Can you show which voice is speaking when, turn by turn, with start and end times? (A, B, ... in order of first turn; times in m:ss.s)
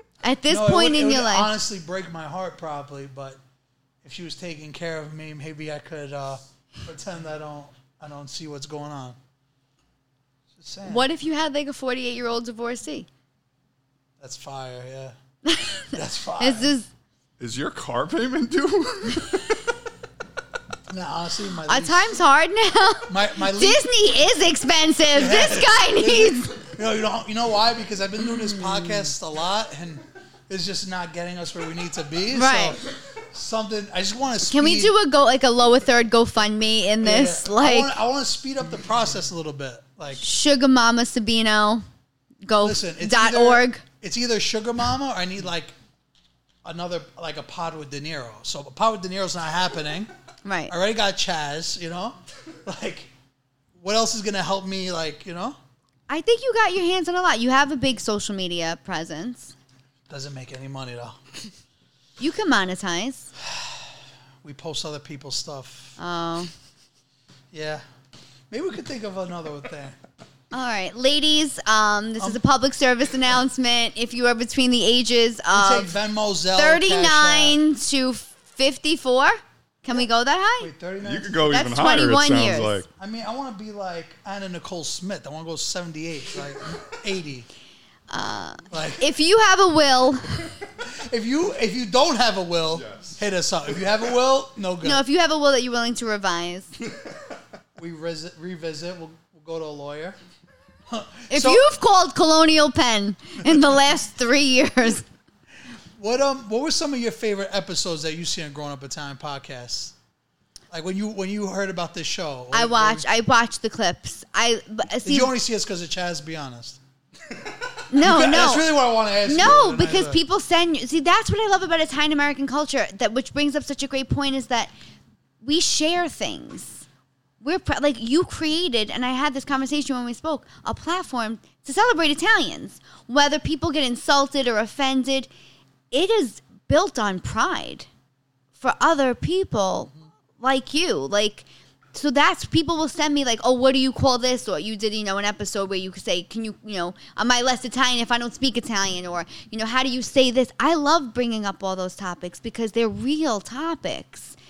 0:00.2-0:01.6 A
0:00.5-0:03.4 B
0:04.0-0:09.2 B
0:10.6-0:11.1 B
0:10.8-0:13.1 A
0:14.2-0:15.2 B
0:15.4-0:16.9 A
0:15.9-0:16.7 B
0:17.4-0:19.5 C
0:20.9-0:22.1 B
0:21.7-0:26.6 A
0:23.1-0:23.9 B
0:25.1-0:34.9 B
0:32.3-0:32.8 A
0:34.4-0:38.0 A
0:37.0-0:40.2 B
0:40.2-0:41.8 A
0:42.4-0:43.8 A
0:42.6-0:45.7 B
0:46.6-0:50.1 B
0:50.4-0:50.7 A
0:50.7-0:53.1 B
0:53.8-0:55.6 B
0:56.1-0:59.6 A
1:00.1-1:01.2 B
1:02.2-1:03.3 A
1:03.4-1:06.0 B
1:06.0-1:06.5 A
1:07.5-1:07.8 B
1:08.5-1:10.0 B
1:10.5-1:15.9 A
1:15.5-1:17.6 B
1:16.6-1:20.7 A
1:20.6-1:21.5 B
1:21.0-1:22.9 C
1:21.4-1:22.8 A
1:23.0-1:27.5 B
1:28.1-1:30.3 A
1:28.7-1:29.1 B
1:30.8-1:35.0 B
1:32.8-1:33.1 C
1:34.8-1:36.7 A
1:37.8-1:40.2 B
1:40.9-1:41.7 B
1:41.3-1:45.1 A
1:46.0-1:50.0 B
1:50.7-1:53.0 B
1:52.5-1:55.3 A
1:55.0-1:56.8 B
1:57.9-1:58.7 A
1:57.9-2:00.2 B
1:59.2-2:04.7 A
2:05.4-2:06.9 A
2:07.4-2:15.3 A
2:15.9-2:17.9 A
2:18.6-2:34.4 A